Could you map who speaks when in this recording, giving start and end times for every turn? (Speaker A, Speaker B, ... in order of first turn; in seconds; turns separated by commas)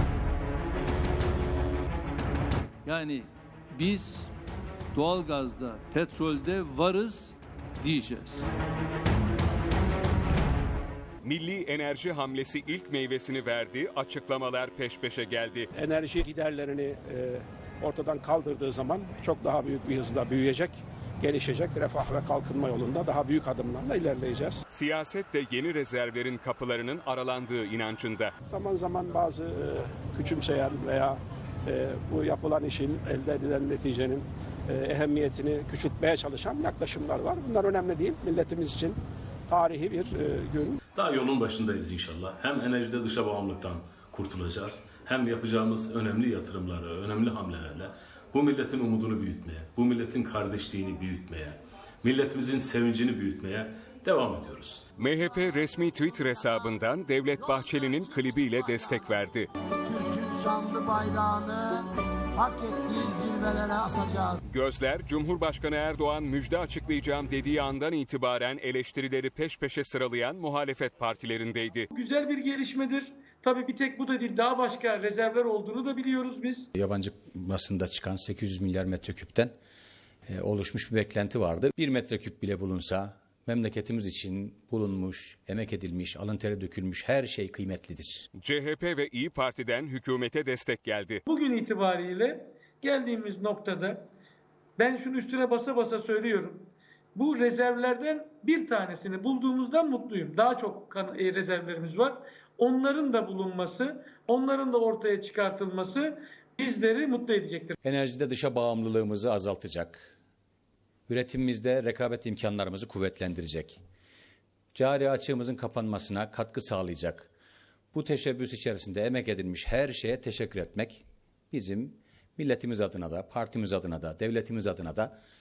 Speaker A: 2.9-4.3, Speaker A: 4.9-8.5, Speaker B: 11.2-15.7, Speaker C: 15.7-24.6, Speaker B: 24.7-28.3, Speaker C: 28.5-40.8, Speaker D: 40.9-54.9, Speaker B: 54.9-59.5, Speaker E: 57.5-59.0, Speaker E: 59.8-64.4, Speaker B: 64.5-71.9, Speaker F: 71.9-76.7, Speaker G: 76.8-79.5, Speaker G: 80.3-88.3, Speaker B: 88.4-91.2, Speaker F: 91.3-94.0, Speaker F: 94.8-107.8, Speaker G: 107.8-110.1, Speaker G: 111.1-113.8, Speaker G: 114.7-117.3, Speaker G: 117.9-125.1